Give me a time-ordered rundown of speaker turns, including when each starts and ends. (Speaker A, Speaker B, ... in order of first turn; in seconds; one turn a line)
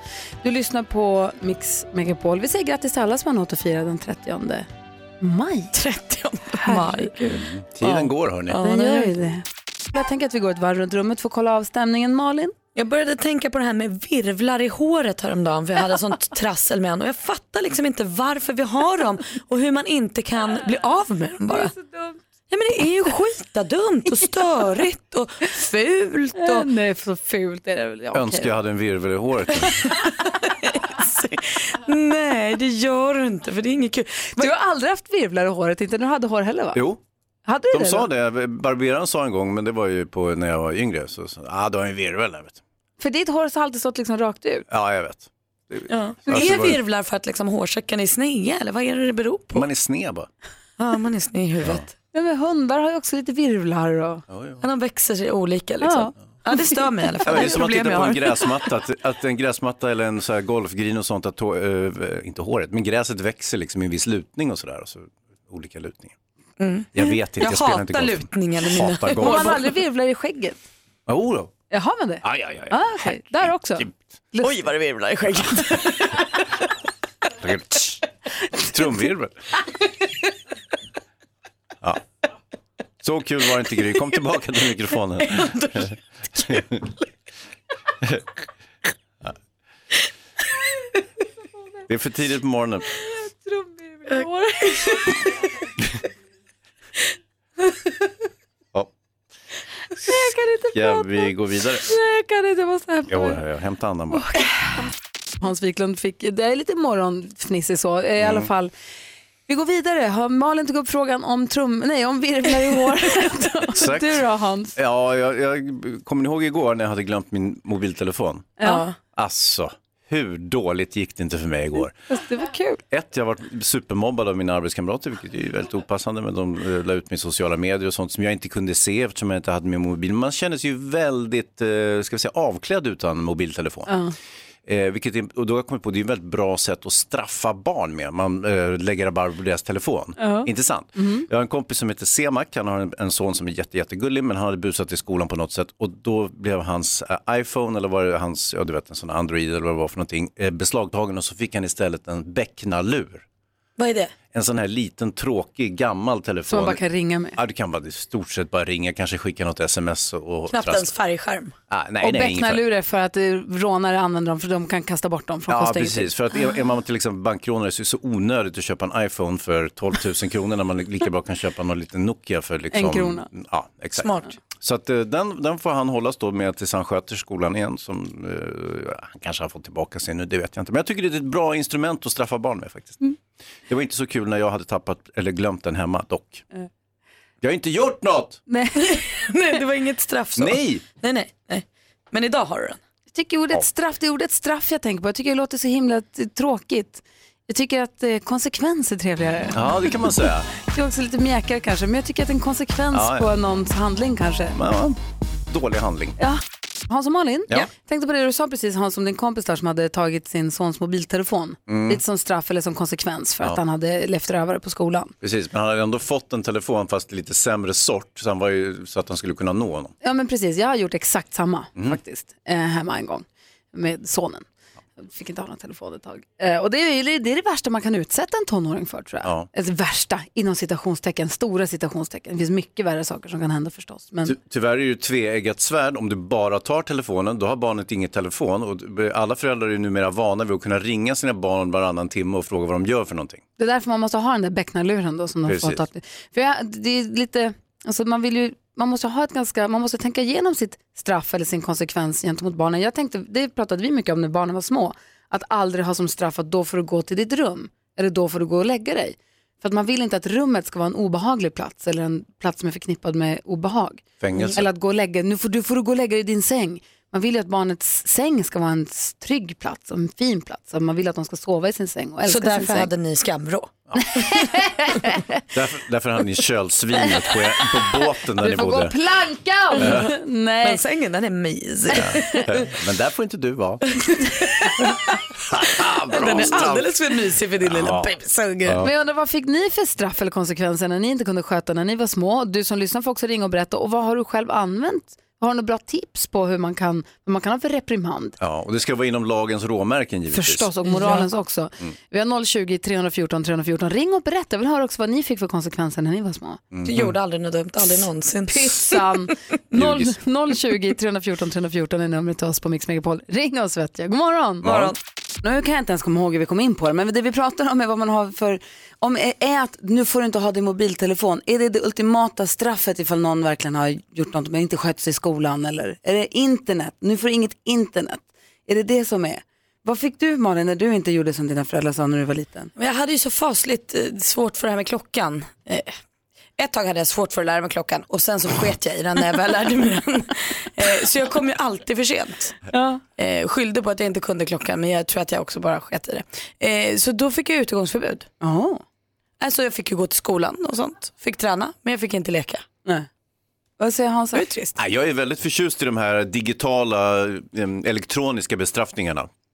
Speaker A: 0.4-4.7
Speaker A: 5.2-5.7
Speaker B: 5.7-7.4
Speaker A: 6.5-7.1
Speaker C: 7.3-8.6
Speaker B: 8.5-9.1
Speaker A: 8.6-12.5
Speaker B: 12.7-21.7
Speaker A: 21.5-22.2
Speaker B: 22.5-26.7
Speaker A: 26.4-28.5
Speaker C: 28.1-29.9
Speaker B: 29.7-34.5
Speaker A: 34.4-36.8
Speaker C: 36.7-37.0
Speaker A: 37.5-38.1
Speaker C: 37.7-42.6
Speaker A: 43.0-44.6
Speaker C: 44.7-46.8
Speaker B: 45.9-49.7
Speaker C: 49.5-50.3
Speaker B: 50.8-51.9
Speaker A: 52.1-54.2
Speaker C: 54.3-54.6
Speaker B: 54.6-58.5
Speaker A: 55.8-57.6
Speaker C: 57.2-66.1
Speaker B: 66.6-69.7
Speaker C: 66.9-69.6
Speaker A: 69.2-70.6
Speaker C: 71.1-71.5
Speaker A: 71.7-74.6
Speaker C: 72.2-72.8
Speaker B: 74.4-76.3
Speaker C: 77.4-78.0
Speaker C: 78.7-79.3
Speaker C: 83.0-85.9
Speaker B: 85.3-85.7
Speaker C: 86.4-86.8
Speaker C: 91.9-92.9
Speaker A: 93.0-95.3
Speaker B: 94.8-95.2
Speaker A: 100.0-101.3
Speaker C: 100.7-101.9
Speaker A: 101.8-103.4
Speaker C: 103.1-104.3
Speaker A: 104.1-104.8
Speaker A: 105.4-108.7
Speaker C: 108.2-108.5
Speaker A: 109.5-114.8
Speaker C: 113.7-114.2
Speaker C: 114.7-118.5
Speaker A: 118.6-118.8
Speaker B: 118.6-119.0
Speaker C: 119.1-121.9
Speaker A: 122.1-122.8
Speaker C: 122.9-133.9
Speaker A: 133.9-134.1
Speaker C: 134.7-153.2
Speaker A: 140.2-141.3
Speaker B: 153.8-154.1
Speaker C: 154.3-156.8
Speaker A: 156.5-157.4
Speaker C: 157.3-160.9
Speaker B: 160.5-161.5
Speaker C: 161.7-162.6
Speaker A: 162.0-166.1
Speaker C: 165.5-183.0
Speaker A: 172.7-173.3
Speaker B: 173.9-174.3
Speaker C: 183.7-186.4
Speaker C: 187.4-188.4
Speaker A: 188.5-189.0
Speaker B: 188.8-192.8
Speaker C: 190.4-190.8
Speaker A: 193.1-199.8
Speaker C: 199.5-200.5
Speaker A: 200.6-204.6
Speaker C: 202.9-203.3
Speaker C: 204.5-206.2
Speaker A: 206.2-215.1
Speaker C: 211.7-212.0
Speaker C: 215.2-219.9
Speaker A: 220.0-224.4
Speaker A: 225.0-234.3
Speaker C: 234.2-243.4
Speaker A: 243.6-272.9
Speaker C: 245.5-245.8
Speaker C: 264.2-264.6
Speaker B: 272.2-273.7
Speaker A: 274.1-275.2
Speaker C: 275.5-278.9
Speaker A: 278.4-280.8
Speaker B: 279.8-280.1
Speaker C: 279.8-280.1
Speaker B: 280.6-282.7
Speaker C: 281.9-283.8
Speaker B: 284.0-285.0
Speaker C: 285.5-286.9
Speaker B: 285.9-288.8
Speaker C: 287.6-288.1
Speaker A: 288.8-298.4
Speaker C: 298.4-300.7
Speaker A: 300.3-306.6
Speaker B: 300.9-301.2
Speaker C: 306.7-307.1
Speaker B: 306.8-309.3
Speaker A: 308.5-314.7
Speaker C: 309.7-310.1
Speaker B: 314.6-314.9
Speaker C: 314.6-314.9
Speaker A: 315.4-332.7
Speaker B: 332.8-335.9
Speaker B: 336.6-342.6
Speaker A: 342.7-343.0
Speaker B: 343.2-348.3
Speaker A: 348.4-348.8
Speaker B: 349.4-352.6
Speaker A: 353.8-354.5
Speaker B: 354.3-354.7
Speaker C: 354.8-359.3